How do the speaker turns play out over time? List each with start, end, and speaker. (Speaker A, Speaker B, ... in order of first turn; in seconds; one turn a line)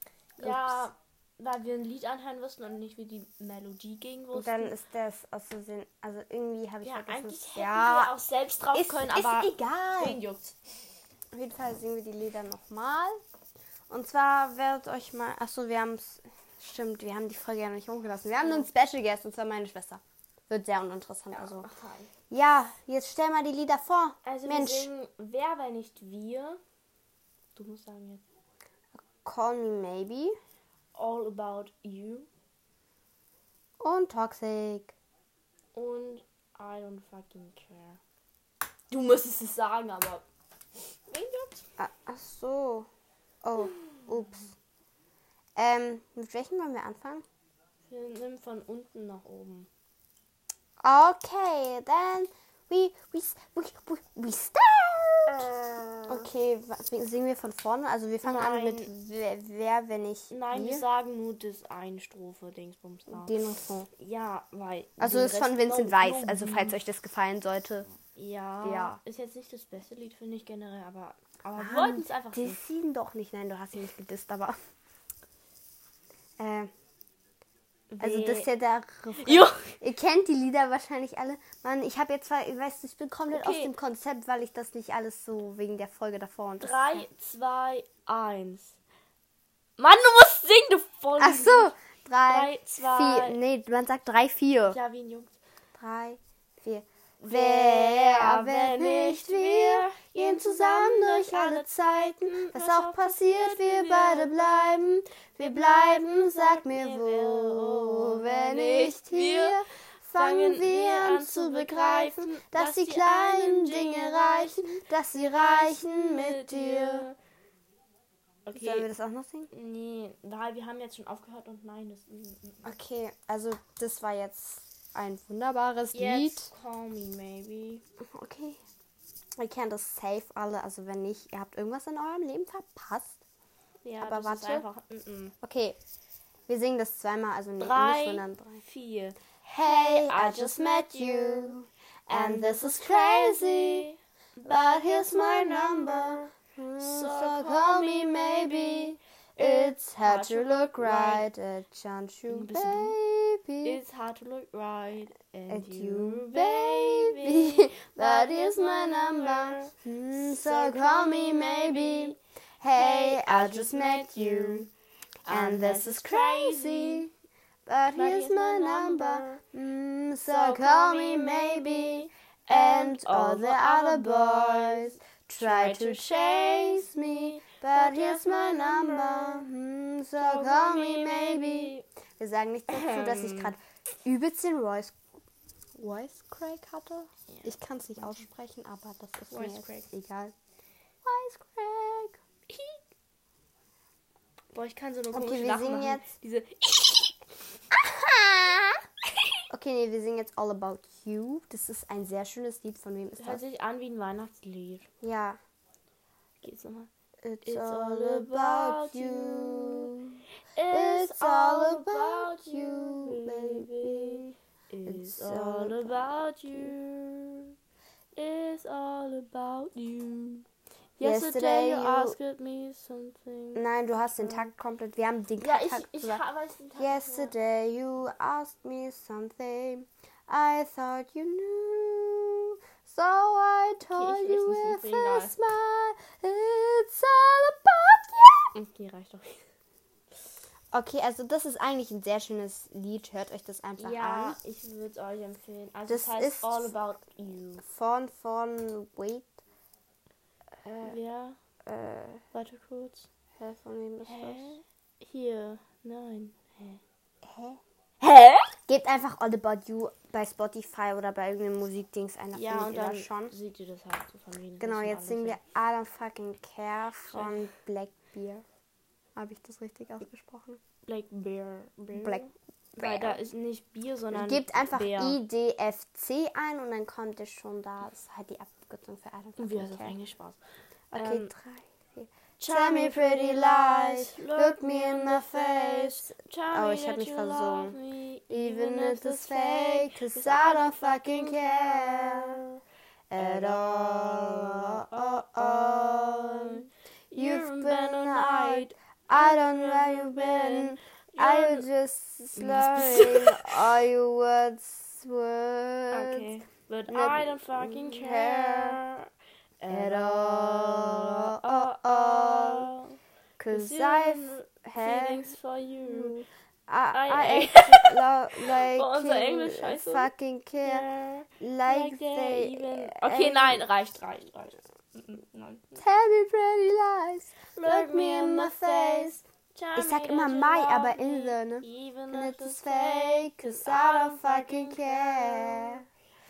Speaker A: 0.4-0.9
Speaker B: 0.4-4.8
Speaker A: 4.3-8.2
Speaker B: 6.8-10.5
Speaker A: 8.7-10.2
Speaker A: 11.3-13.2
Speaker A: 13.9-21.7
Speaker B: 18.4-18.7
Speaker B: 21.3-22.1
Speaker A: 22.3-24.9
Speaker B: 24.2-26.6
Speaker B: 27.5-28.2
Speaker A: 29.0-30.3
Speaker B: 30.9-32.3
Speaker A: 33.8-34.9
Speaker B: 35.7-38.0
Speaker B: 38.9-40.3
Speaker B: 41.1-41.7
Speaker A: 41.8-42.9
Speaker A: 43.4-44.5
Speaker B: 43.6-44.1
Speaker A: 45.6-47.2
Speaker B: 47.9-49.7
Speaker A: 50.8-55.5
Speaker B: 55.3-56.0
Speaker A: 56.0-60.8
Speaker B: 58.2-58.9
Speaker B: 60.3-63.3
Speaker A: 63.1-63.9
Speaker B: 63.9-66.8
Speaker A: 65.0-67.9
Speaker B: 68.2-72.6
Speaker A: 68.6-69.0
Speaker A: 71.6-74.6
Speaker A: 76.4-76.7
Speaker B: 77.9-78.5
Speaker A: 78.0-87.0
Speaker B: 79.1-79.8
Speaker B: 83.3-83.8
Speaker B: 86.6-88.8
Speaker B: 89.8-91.7
Speaker A: 91.2-94.8
Speaker B: 92.3-93.4
Speaker B: 94.7-95.4
Speaker A: 95.8-117.1
Speaker B: 97.2-104.4
Speaker B: 105.5-109.6
Speaker B: 110.1-117.2
Speaker B: 118.5-118.9
Speaker A: 118.5-119.5
Speaker B: 119.5-122.7
Speaker A: 122.6-126.5
Speaker B: 125.9-127.8
Speaker A: 128.0-128.6
Speaker A: 129.4-133.2
Speaker B: 133.8-135.3
Speaker A: 134.0-134.7
Speaker A: 135.4-135.8
Speaker A: 136.5-138.6
Speaker B: 137.6-141.6
Speaker A: 139.4-143.9
Speaker B: 142.1-146.2
Speaker A: 144.4-153.8
Speaker B: 146.8-151.3
Speaker B: 152.3-153.0
Speaker B: 153.6-162.2
Speaker A: 155.5-164.7
Speaker B: 162.8-164.7
Speaker B: 165.2-167.1
Speaker A: 165.3-167.1
Speaker A: 167.7-184.9
Speaker B: 167.9-169.4
Speaker B: 170.2-179.5
Speaker B: 180.2-181.9
Speaker B: 182.7-183.6
Speaker A: 185.8-190.3
Speaker B: 189.3-189.9
Speaker A: 191.0-192.2
Speaker B: 192.5-192.8
Speaker B: 194.5-199.2
Speaker A: 195.1-196.1
Speaker A: 199.5-203.4
Speaker B: 203.2-204.9
Speaker A: 205.0-205.4
Speaker B: 206.4-206.9
Speaker A: 207.2-214.3
Speaker B: 207.4-209.9
Speaker B: 210.5-217.6
Speaker A: 214.8-216.7
Speaker B: 218.2-220.5
Speaker B: 221.0-223.6
Speaker A: 221.0-222.2
Speaker A: 223.6-226.2
Speaker B: 224.2-224.5
Speaker B: 225.4-227.3
Speaker A: 226.8-238.5
Speaker B: 233.8-235.3
Speaker B: 238.6-239.5
Speaker A: 240.7-244.4
Speaker B: 243.8-247.6
Speaker A: 245.9-246.7
Speaker A: 247.6-249.4
Speaker A: 250.6-251.0
Speaker B: 250.8-251.4
Speaker A: 251.7-252.2
Speaker B: 252.3-253.1
Speaker A: 253.4-254.6
Speaker B: 254.0-256.8
Speaker A: 257.2-257.6
Speaker B: 258.0-258.5
Speaker A: 258.6-263.3
Speaker B: 262.3-265.4
Speaker A: 264.6-268.4
Speaker B: 267.1-267.4
Speaker A: 269.1-270.6
Speaker B: 270.9-275.2
Speaker A: 271.9-272.2
Speaker A: 272.8-273.2
Speaker A: 274.1-279.9
Speaker B: 279.4-280.4
Speaker A: 280.9-287.8
Speaker B: 280.9-281.3
Speaker B: 282.4-292.4
Speaker A: 288.3-292.6
Speaker A: 293.1-306.3
Speaker B: 293.2-301.7
Speaker B: 302.4-303.7
Speaker B: 305.9-313.0
Speaker A: 306.9-308.8
Speaker A: 309.7-312.7
Speaker A: 313.4-315.3
Speaker B: 313.5-316.2
Speaker A: 315.8-320.9
Speaker B: 316.9-325.8
Speaker A: 321.4-323.6
Speaker A: 325.8-329.2
Speaker B: 327.6-335.8
Speaker A: 329.7-335.8